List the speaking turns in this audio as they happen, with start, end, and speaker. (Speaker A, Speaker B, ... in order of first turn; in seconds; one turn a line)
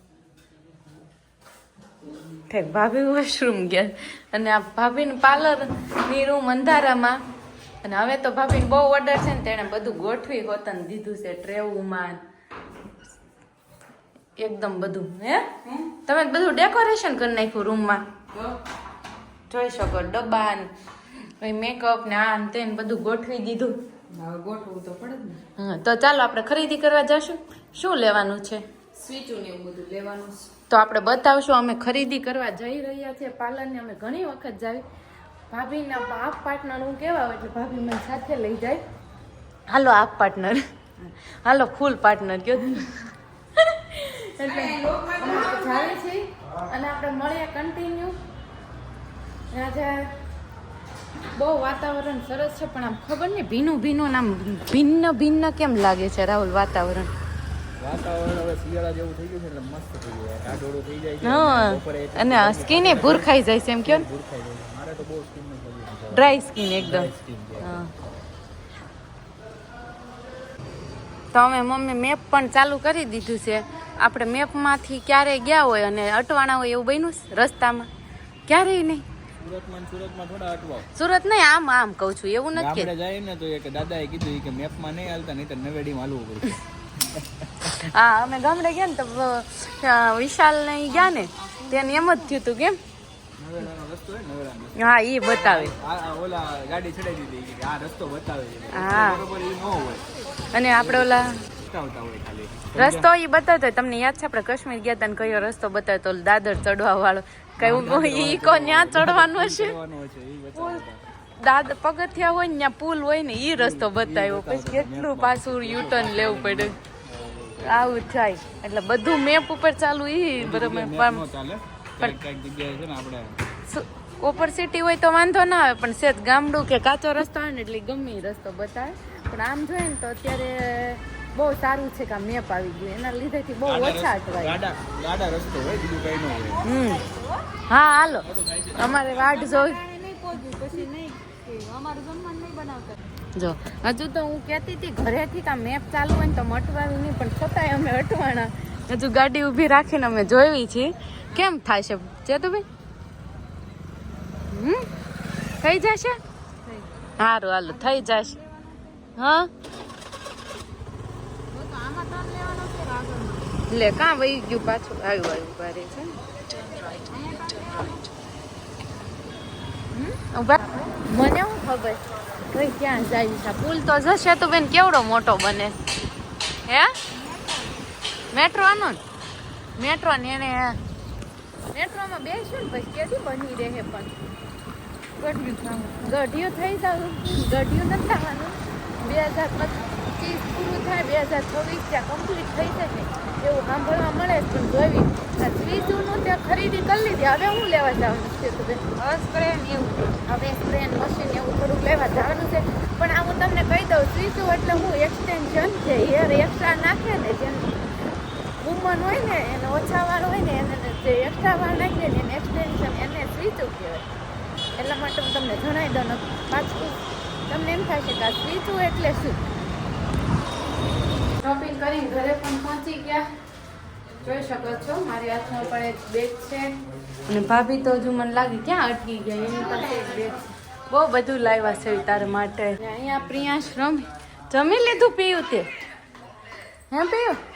Speaker A: 2.5-7.2
Speaker A: 7.8-12.2
Speaker A: 14.4-18.0
Speaker A: 19.5-20.7
Speaker A: 21.4-23.7
Speaker B: 24.1-25.4
Speaker A: 25.6-28.6
Speaker B: 29.0-30.5
Speaker A: 30.7-34.8
Speaker A: 35.5-38.8
Speaker A: 39.7-48.2
Speaker B: 44.4-46.0
Speaker A: 49.5-50.1
Speaker A: 51.4-57.1
Speaker C: 57.8-63.3
Speaker A: 61.2-64.1
Speaker C: 63.8-67.8
Speaker A: 66.1-67.9
Speaker A: 71.3-77.9
Speaker A: 78.5-79.0
Speaker C: 79.4-80.9
Speaker A: 80.9-82.9
Speaker C: 82.5-87.8
Speaker A: 87.6-92.8
Speaker B: 90.9-92.2
Speaker C: 93.4-100.1
Speaker A: 94.8-95.7
Speaker A: 98.7-99.2
Speaker A: 100.5-101.4
Speaker C: 100.7-103.1
Speaker A: 102.8-109.8
Speaker C: 107.6-111.0
Speaker A: 110.5-110.8
Speaker A: 111.4-116.8
Speaker C: 113.5-118.0
Speaker A: 117.6-121.2
Speaker C: 120.4-123.4
Speaker A: 123.7-134.6
Speaker C: 133.7-136.7
Speaker A: 136.6-137.1
Speaker B: 136.8-137.3
Speaker A: 137.7-139.8
Speaker C: 138.2-139.2
Speaker B: 139.0-143.0
Speaker A: 143.4-152.7
Speaker A: 154.5-154.9
Speaker A: 155.6-156.2
Speaker B: 156.7-157.1
Speaker A: 157.2-158.3
Speaker B: 157.7-159.1
Speaker A: 159.2-159.5
Speaker B: 161.5-163.6
Speaker A: 163.7-166.1
Speaker B: 166.5-168.1
Speaker A: 169.9-175.8
Speaker B: 170.6-171.0
Speaker A: 176.7-176.9
Speaker B: 177.1-177.8
Speaker A: 178.3-179.0
Speaker A: 179.8-180.8
Speaker A: 181.7-184.1
Speaker B: 185.3-185.7
Speaker A: 185.3-199.6
Speaker B: 199.1-200.1
Speaker A: 200.1-207.7
Speaker A: 208.6-214.1
Speaker A: 214.8-219.4
Speaker A: 221.4-223.3
Speaker A: 224.2-226.7
Speaker A: 227.3-235.7
Speaker B: 229.5-230.4
Speaker A: 236.9-237.4